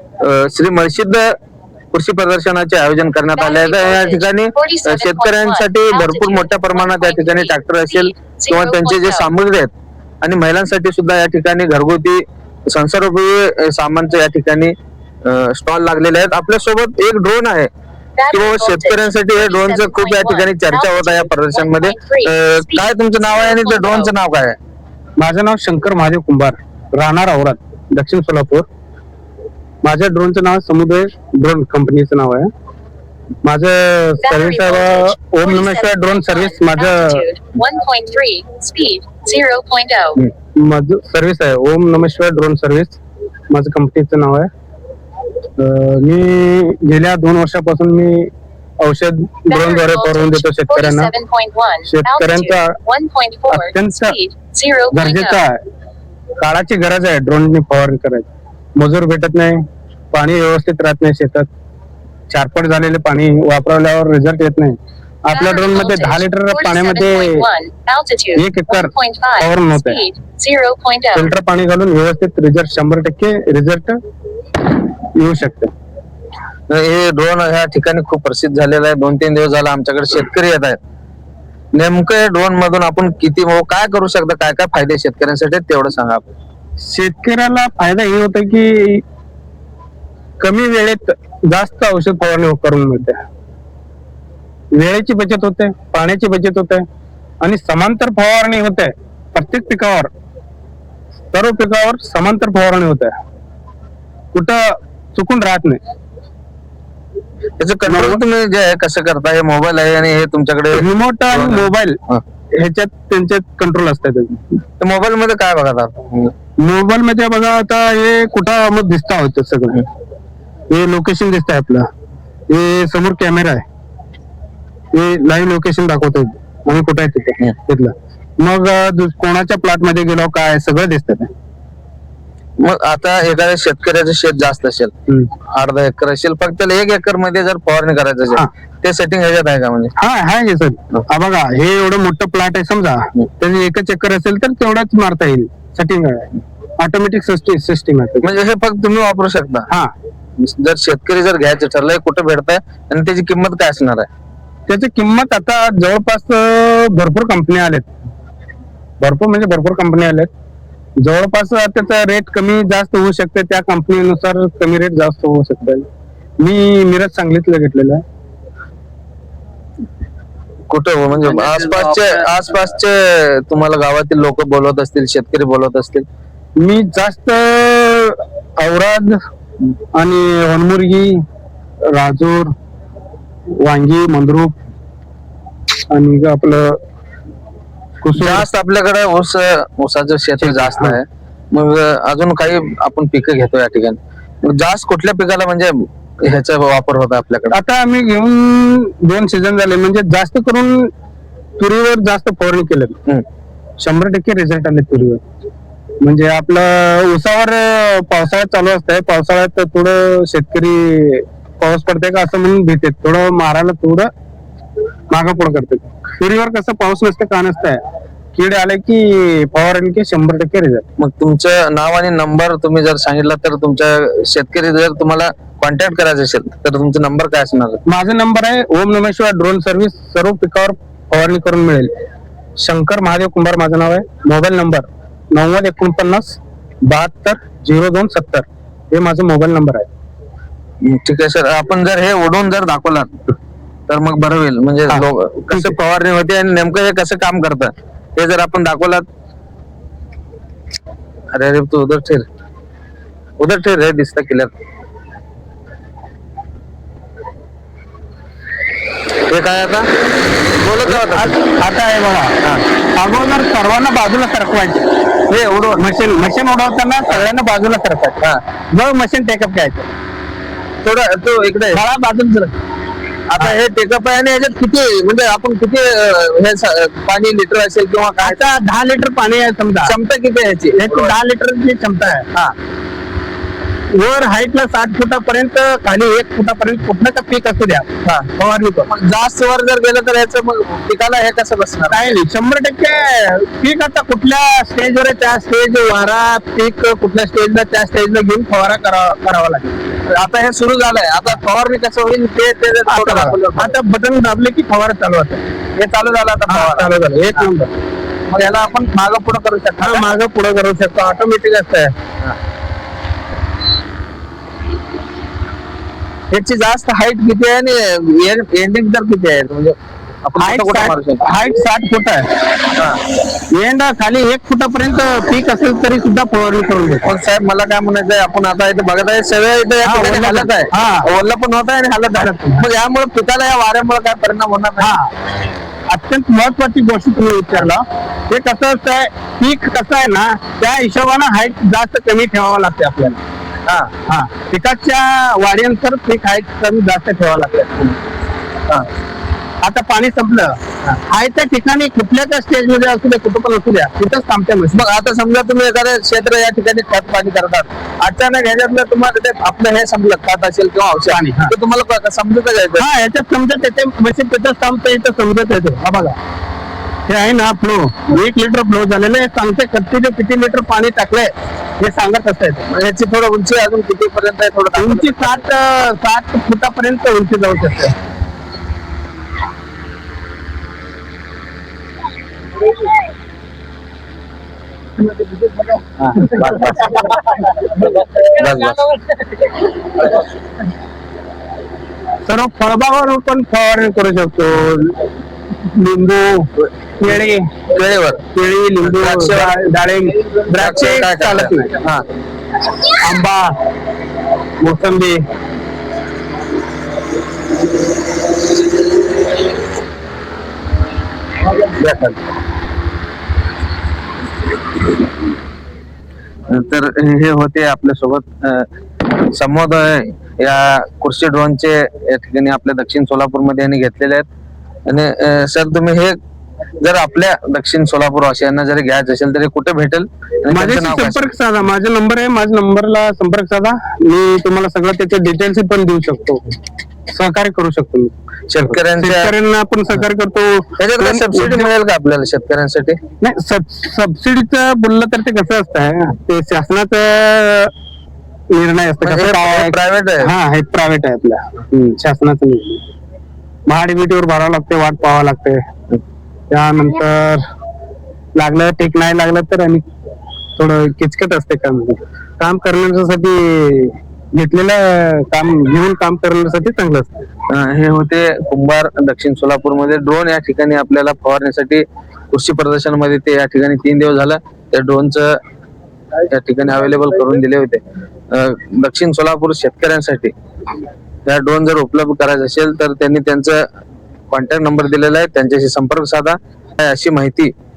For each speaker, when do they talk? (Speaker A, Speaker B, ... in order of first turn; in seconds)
Speaker A: 0.2-1.3, 1.9-9.7, 10.2-17.7, 18.3-24.6, 76.7-80.8, 81.7-86.3, 107.6-112.2, 114.8-116.3, 132.6-134.9, 135.5-139.9, 148.2-149.7, 150.4-154.1, 170.7-176.0, 188.1-197.5, 221.0-227.8, 240.8-243.1, 243.9-249.1, 251.3-252.2, 253.4-254.5, 259.3-259.9, 260.6-261.4, 265.3-265.9, 270.8-271.8, 273.3-278.4, 279.8-281.1, 288.9-292.2, 300.1-303.8, 305.8-307.5, 308.3-310.2, 316.3-321.2, 322.7-323.0, 327.0-334.9, 343.6-343.9, 354.7-362.9, 372.7-375.4, 386.0-387.0, 388.2-388.8, 397.1-398.2, 398.8-399.6, 400.5-402.0, 411.6-412.2, 416.5-418.7, 419.3-424.2, 424.9-426.2, 426.8-431.3, 438.5-439.3, 440.8-443.0, 449.0-450.3, 467.5-475.4, 476.3-480.3, 481.2-483.6, 484.3-487.5
Speaker B: 3.4-9.3, 18.2-24.1, 34.2-40.2, 49.5-55.4, 65.3-71.3
Speaker C: 25.2-28.6, 29.8-32.5, 33.4-37.2, 40.6-43.0, 43.5-44.5, 45.6-48.3, 48.8-51.1, 51.9-52.7, 53.5-54.2, 54.9-55.6, 56.4-61.5, 62.3-67.5, 68.3-70.0, 71.1-74.0, 75.2-75.7, 86.8-89.0, 90.4-93.2, 94.7-96.8, 97.4-100.1, 101.3-103.1, 104.3-105.8, 107.9-108.2, 110.7-112.0, 112.5-114.5, 116.6-119.8, 120.7-121.9, 122.5-123.6, 124.9-131.3, 140.0-148.3, 154.7-157.9, 159.0-160.3, 161.0-165.8, 166.4-168.0, 176.6-179.2, 179.9-181.2, 181.9-182.5, 183.6-184.5, 185.9-186.8, 188.0-188.5, 190.4-191.0, 197.5-200.9, 201.6-203.0, 203.8-205.2, 206.0-214.1, 215.1-217.8, 218.3-220.8, 227.8-231.9, 232.6-239.9, 244.9-245.7, 260.8-262.4, 262.9-264.9, 265.7-269.9, 271.7-272.5, 278.2-279.9, 280.7-282.2, 283.9-288.9, 291.9-299.8, 302.9-305.4, 306.5-307.7, 309.8-311.9, 320.4-322.3, 323.5-327.1, 329.8-331.1, 332.1-332.6, 334.8-335.1, 335.9-343.2, 344.1-347.9, 349.6-354.8, 361.1-361.5, 362.8-366.1, 367.1-372.7, 374.7-377.9, 392.2-395.0, 395.6-397.4, 398.3-401.7, 403.0-403.5, 404.6-405.2, 430.5-436.4, 437.1-441.7, 443.2-447.7, 448.5-452.8, 453.7-455.6, 456.5-457.4, 458.3-459.8, 460.6-467.2